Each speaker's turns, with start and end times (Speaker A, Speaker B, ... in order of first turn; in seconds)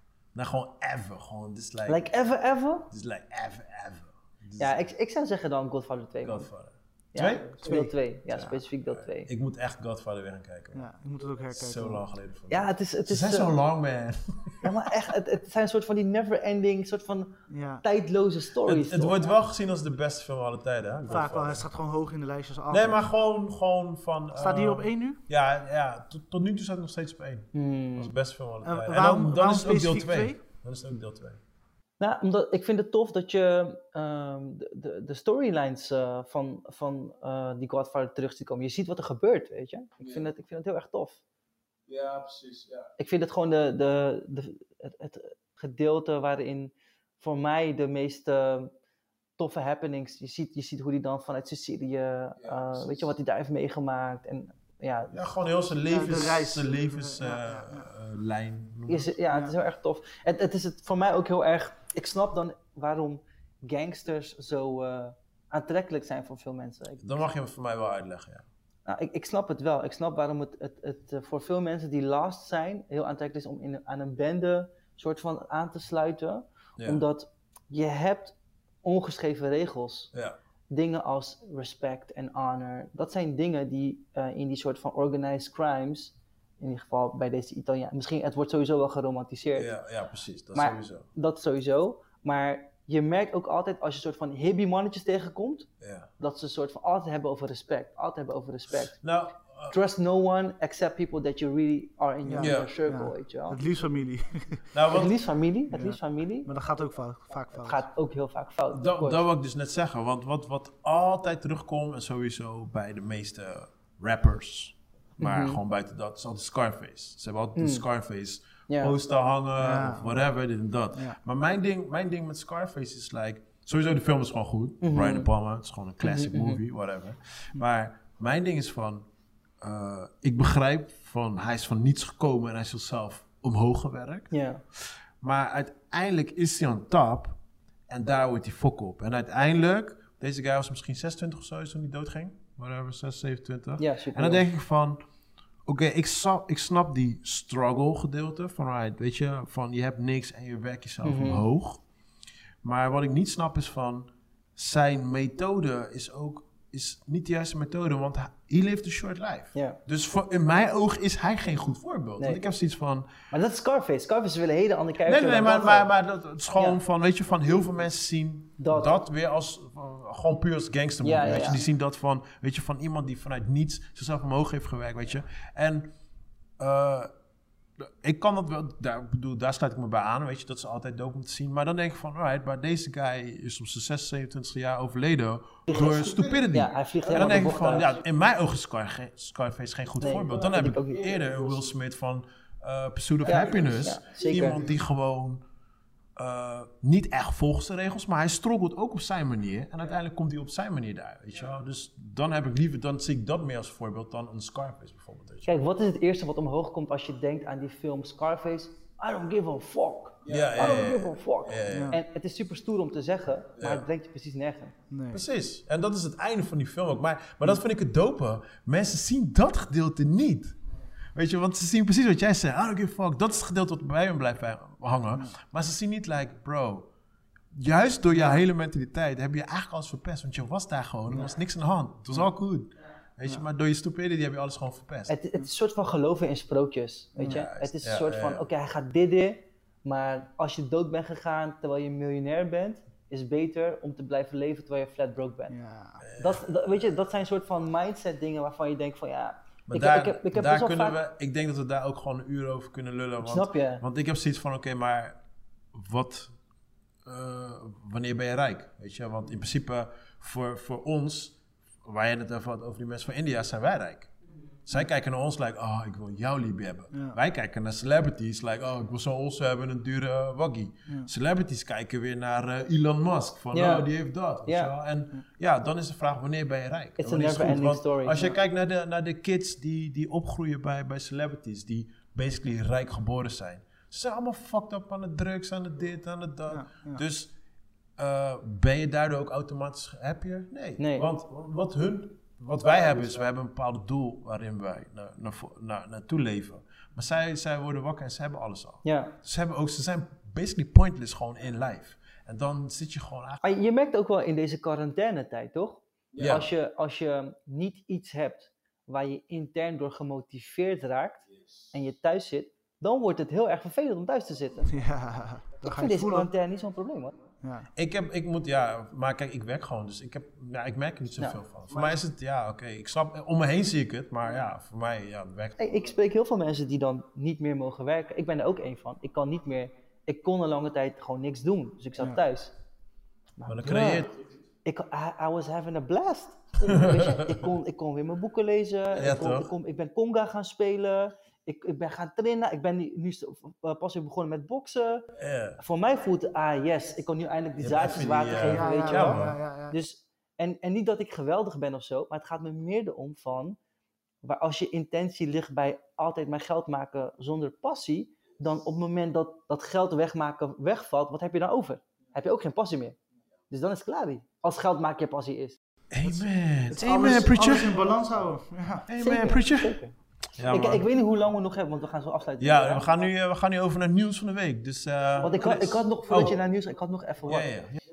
Speaker A: 0.3-2.0, 2.9-4.9, 6.2-7.6, 8.3-10.9, 11.5-14.7, 18.6-21.6, 22.7-31.4, 40.0-40.3, 41.9-42.9, 52.4-53.1, 55.1-59.1, 67.0-68.5, 89.5-91.0, 95.8-96.1, 98.8-99.7, 102.4-102.7, 104.7-105.1, 108.7-129.1, 129.6-134.3, 135.2-137.4, 137.9-145.0, 145.7-151.8, 152.6-163.1, 165.0-175.9, 176.6-177.1, 177.8-195.4, 196.2-205.5, 210.2-211.9, 213.6-213.8, 215.1-220.6, 221.1-226.9, 227.5-235.1, 237.2-238.4, 246.0-246.4, 249.7-255.2, 255.7-256.3, 257.1-264.1, 264.6-287.3, 288.0-303.4, 306.1-306.5, 317.8-325.6, 333.4-334.1, 336.6-337.4, 338.9-339.5, 345.2-345.6, 347.6-349.4, 365.9-367.8, 368.9-369.8, 370.4-370.8, 372.4-376.4, 377.3-377.8
Speaker B: 1.9-2.9, 4.6-6.5, 7.1-9.3, 12.5-13.5, 14.6-19.3, 27.5-28.1, 32.0-41.2, 43.0-48.7, 49.4-55.3, 58.9-67.2, 68.8-80.1, 80.7-89.7, 90.5-95.7, 96.2-99.0, 99.7-103.6, 104.9-106.5, 107.6-109.2, 115.2-115.6, 117.5-117.8, 118.7-118.9, 124.8-125.3, 126.0-126.6, 134.3-134.6, 143.8-144.5, 151.0-151.4, 163.3-165.9, 168.6-168.9, 171.0-171.6, 185.7-188.0, 190.0-191.2, 193.2-194.6, 205.5-214.8, 235.1-245.6, 246.2-251.0, 253.2-253.8, 273.5-273.9, 277.0-278.4, 290.8-291.1, 298.8-299.1, 303.4-314.7, 315.6-317.1, 325.6-332.5, 333.4-334.1, 334.6-345.1, 345.6-353.6, 354.2-362.9, 363.5-365.6, 369.0-369.9, 370.5-372.9, 375.2-377.5
Speaker C: 7.6-7.9, 10.7-12.0, 17.5-17.8, 21.1-23.1, 24.4-25.2, 28.6-30.4, 55.9-57.9, 102.2-104.7, 105.7-107.8, 119.6-120.2, 211.7-212.0, 214.9-215.2, 237.2-237.4, 245.5-246.0, 266.9-267.2, 286.5-287.0, 314.7-316.3, 317.4-317.7, 348.3-349.8, 366.0-368.9